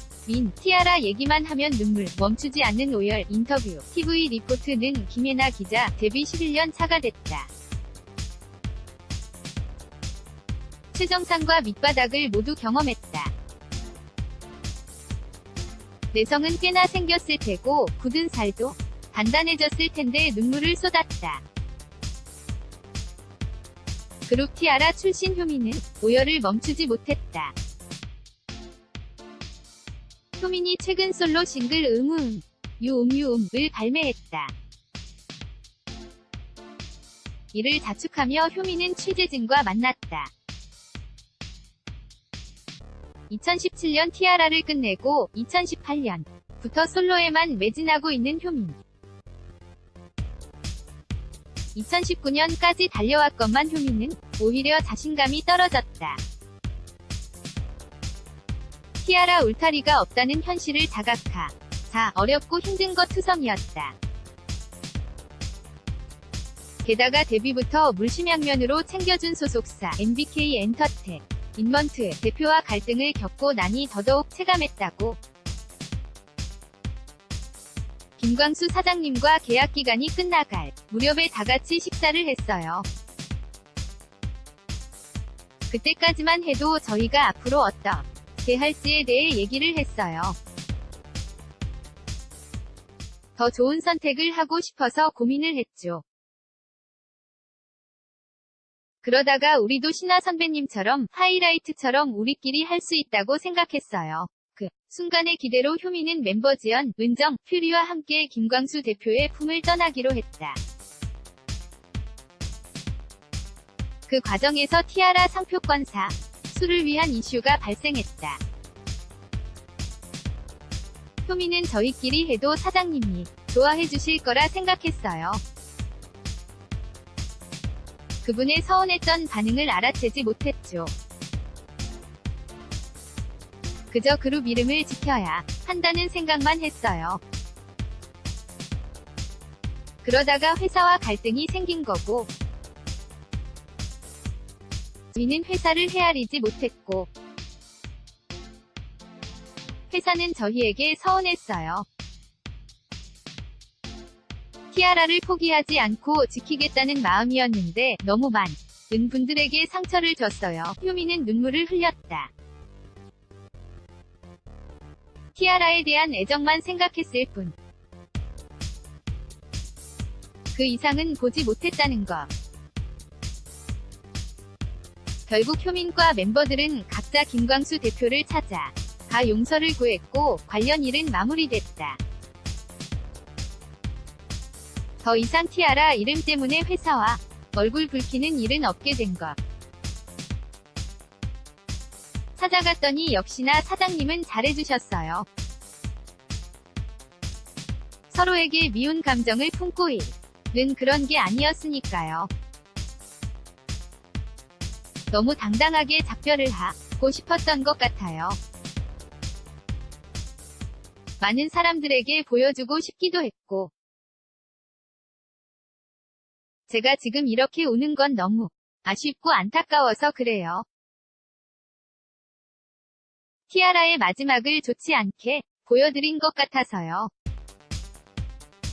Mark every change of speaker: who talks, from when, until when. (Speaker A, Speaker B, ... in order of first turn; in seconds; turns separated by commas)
Speaker A: 0.3-7.5, Speaker A: 10.9-13.3, Speaker A: 16.1-21.4, Speaker A: 24.3-27.6, Speaker A: 30.4-34.5, Speaker A: 37.5-40.3, Speaker A: 43.3-48.8, Speaker A: 51.8-56.2, Speaker A: 59.0-64.0, Speaker A: 66.8-75.2, Speaker A: 78.2-82.9, Speaker A: 85.7-90.4, Speaker A: 93.4-96.0, Speaker A: 99.0-110.6, Speaker A: 114.1-118.4, Speaker A: 121.3-125.4, Speaker A: 128.2-130.9, Speaker A: 133.9-137.2, Speaker A: 140.0-142.3, Speaker A: 145.1-147.1, Speaker A: 149.9-151.9, Speaker A: 154.7-162.3, Speaker A: 165.3-167.5, Speaker A: 170.5-172.3, Speaker A: 175.3-182.0, Speaker A: 185.0-189.4, Speaker A: 192.4-195.3, Speaker A: 198.1-202.3, Speaker A: 205.1-208.4, Speaker A: 211.2-213.7, Speaker A: 216.7-220.7, Speaker A: 223.5-227.1